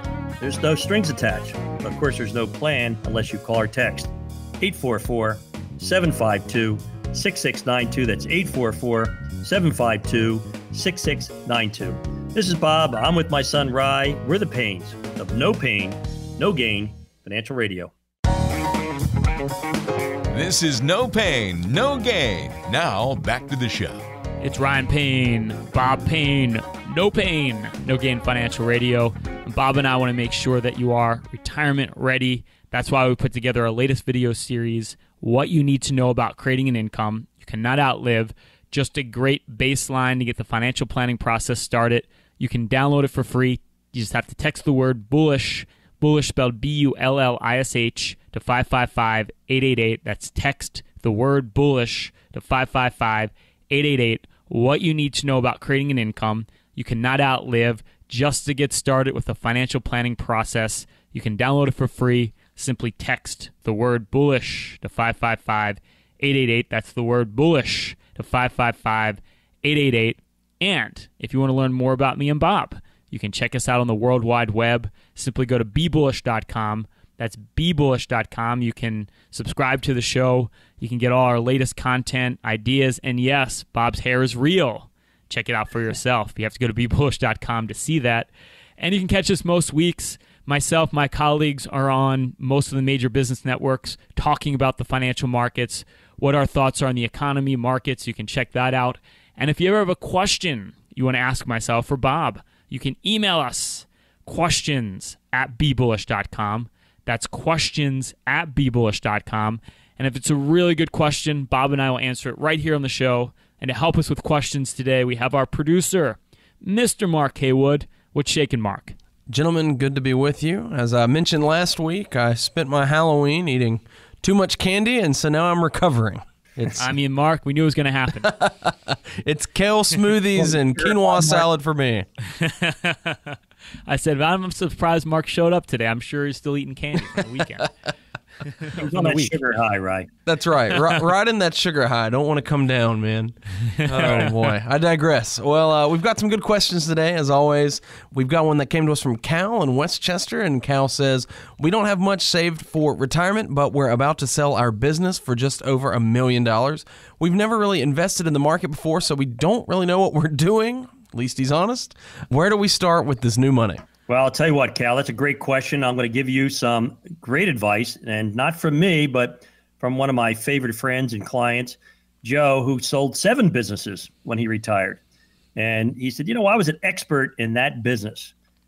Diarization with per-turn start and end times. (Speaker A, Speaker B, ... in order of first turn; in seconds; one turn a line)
Speaker A: 0.4-17.9
Speaker B: 20.3-24.0
Speaker C: 24.4-119.0
Speaker D: 119.3-126.9
Speaker C: 126.8-128.3
Speaker D: 128.2-132.1
Speaker A: 130.3-131.5
Speaker C: 132.4-133.4
Speaker C: 133.9-137.7
Speaker C: 138.6-139.2
Speaker A: 138.8-140.1
Speaker D: 140.3-163.8
Speaker C: 143.8-144.5
Speaker A: 164.1-175.0
Speaker A: 175.6-178.3